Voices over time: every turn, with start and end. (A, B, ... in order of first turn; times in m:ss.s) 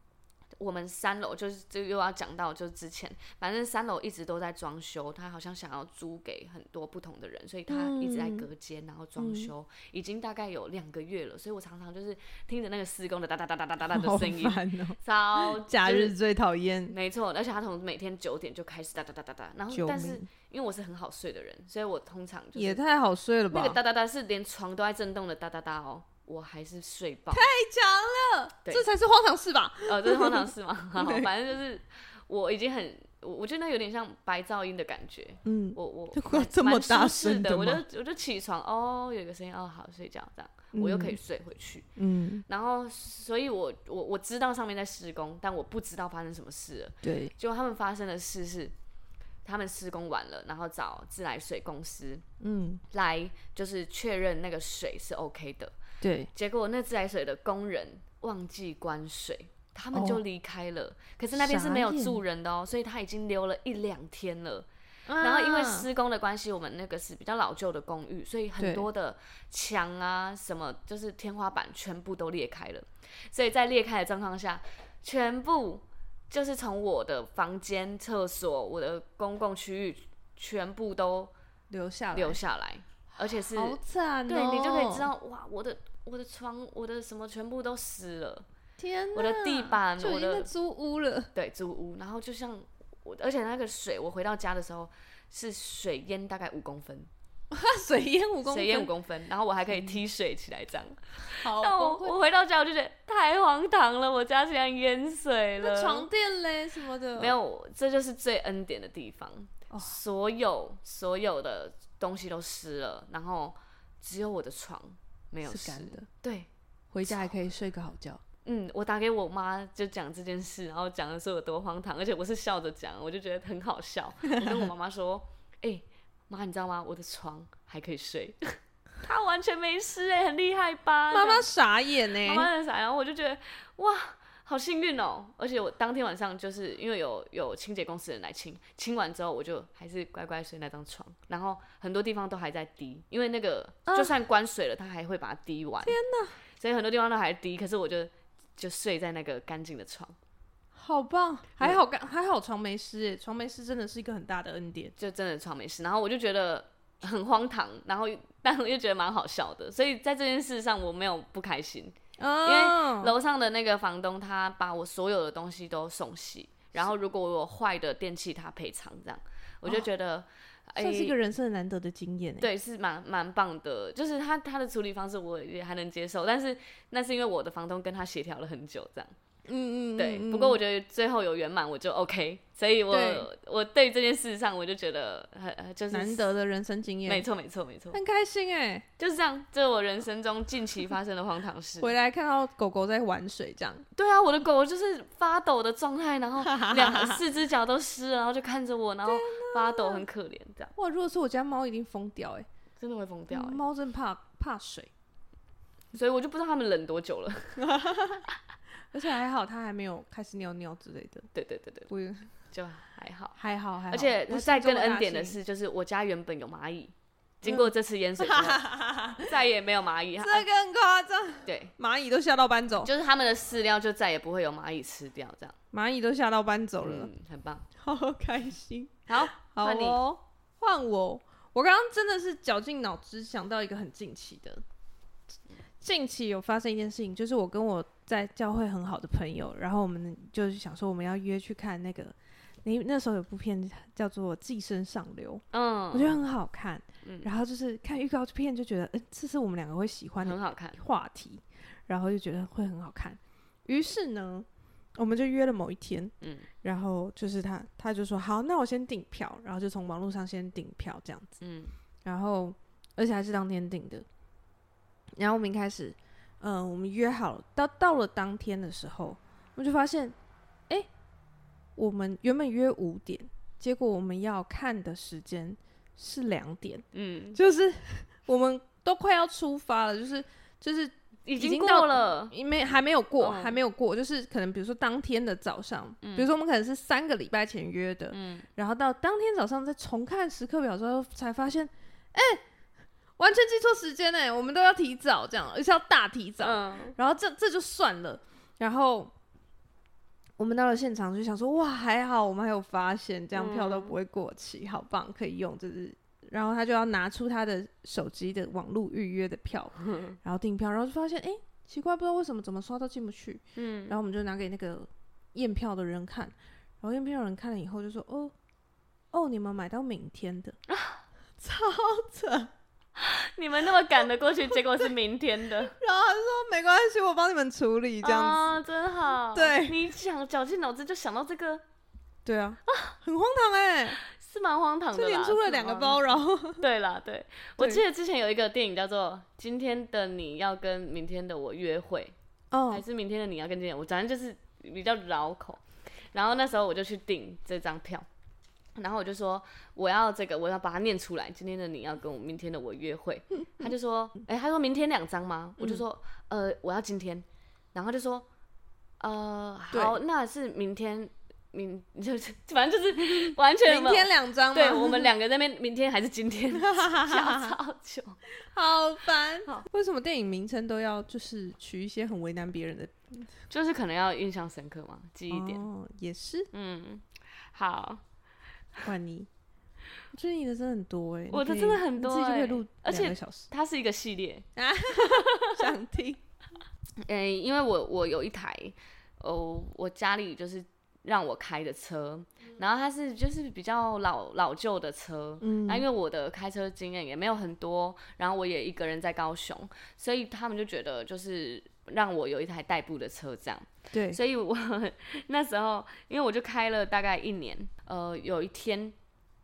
0:00.6-0:16.1 A
0:07.7-0:08.5 B
0:09.2-0:09.5 B
0:13.9-0:16.9 B
0:16.9-0:22.8 A
0:19.7-0:20.3 B
0:22.5-0:23.8 B
0:23.5-0:27.5 A
0:27.3-0:31.3 B
0:29.8-0:41.9 A
0:35.4-0:37.8 B
0:40.7-0:41.2 B
0:42.0-0:42.4 B
0:42.5-0:48.7 A
0:47.0-0:47.3 B
0:49.4-0:52.2 A
0:52.4-0:52.8 B
0:52.9-0:55.7 A
0:56.0-0:56.3 B
0:56.3-1:04.7 A
0:59.9-1:00.2 B
1:01.3-1:02.2 B
1:05.1-1:05.8 B
1:05.2-1:21.3 A
1:08.6-1:08.8 B
1:21.7-1:22.4 B
1:22.1-1:28.4 A
1:23.2-1:25.1 B
1:28.8-1:31.3 B
1:29.1-1:30.5 A
1:31.3-1:37.1 A
1:37.5-1:38.9 B
1:38.4-1:46.1 A
1:39.7-1:40.0 B
1:41.4-1:42.2 B
1:45.6-1:47.3 B
1:47.2-1:56.5 A
1:49.7-1:50.0 B
1:55.4-1:56.1 B
1:56.9-1:58.2 B
1:58.4-2:11.5 A
2:04.3-2:04.6 B
2:11.1-2:12.5 B
2:12.1-2:26.0 A
2:23.9-2:24.1 B
2:25.8-2:26.4 B
2:26.6-2:30.1 A
2:30.7-2:34.9 B
2:35.0-2:51.1 A
2:42.2-2:43.1 B
2:50.8-2:52.5 B
2:52.4-2:59.1 A
2:59.4-3:00.6 B
3:00.0-3:06.2 A
3:02.9-3:03.3 B
3:05.9-3:07.2 B
3:07.0-3:08.0 A
3:07.9-3:08.8 B
3:09.0-3:11.9 A
3:11.8-3:13.8 B
3:14.0-3:20.7 A
3:16.4-3:17.2 B
3:19.0-3:20.0 B
3:20.8-3:22.4 B
3:22.8-3:23.6 A
3:23.3-3:24.9 B
3:25.9-3:27.7 A
3:27.6-3:28.2 B
3:28.9-3:31.2 B
3:31.3-3:31.9 A
3:31.9-3:32.3 B
3:32.5-3:33.4 A
3:33.4-3:35.4 B
3:33.9-3:38.6 A
3:37.4-3:39.3 B
3:39.2-3:40.4 A
3:40.2-3:42.9 B
3:41.4-3:41.7 A
3:42.8-3:45.5 A
3:45.7-3:47.1 B
3:46.8-3:47.6 A
3:47.8-3:54.6 B
3:49.1-3:50.0 A
3:55.8-4:21.4 B
4:05.5-4:06.2 A
4:07.0-4:07.3 A
4:10.2-4:10.8 A
4:16.2-4:16.5 A
4:21.4-4:21.7 A
4:22.0-4:24.0 B
4:25.2-4:30.1 B
4:31.8-4:52.4 B
4:36.9-4:37.4 A
4:41.2-4:42.3 A
4:43.2-4:43.6 A
4:46.0-4:46.3 A
4:48.1-4:48.5 A
4:53.2-4:59.1 B
4:56.4-4:56.9 A
5:00.4-5:18.3 B
5:03.3-5:04.0 A
5:09.8-5:10.2 A
5:13.6-5:14.0 A
5:19.1-5:20.6 B
5:20.7-5:21.0 A
5:21.4-5:22.5 B
5:23.0-5:25.7 A
5:25.7-5:28.4 B
5:28.0-5:31.6 A
5:29.3-5:29.8 B
5:32.2-5:34.0 B
5:32.7-5:32.9 A
5:34.0-5:42.1 A
5:34.9-5:36.6 B
5:42.5-5:42.8 B
5:42.7-5:45.6 A
5:46.1-5:48.0 A
5:48.8-5:58.2 A
5:59.0-6:08.2 A
6:03.2-6:05.1 B
6:06.5-6:07.5 B
6:08.5-6:13.3 B
6:13.5-6:15.6 A
6:15.3-6:16.5 B
6:16.5-6:18.0 A
6:18.8-6:19.3 B
6:20.1-6:23.5 B
6:21.3-6:25.7 A
6:24.6-6:26.2 B
6:27.0-6:48.9 A
6:35.4-6:35.8 B
6:43.9-6:44.2 B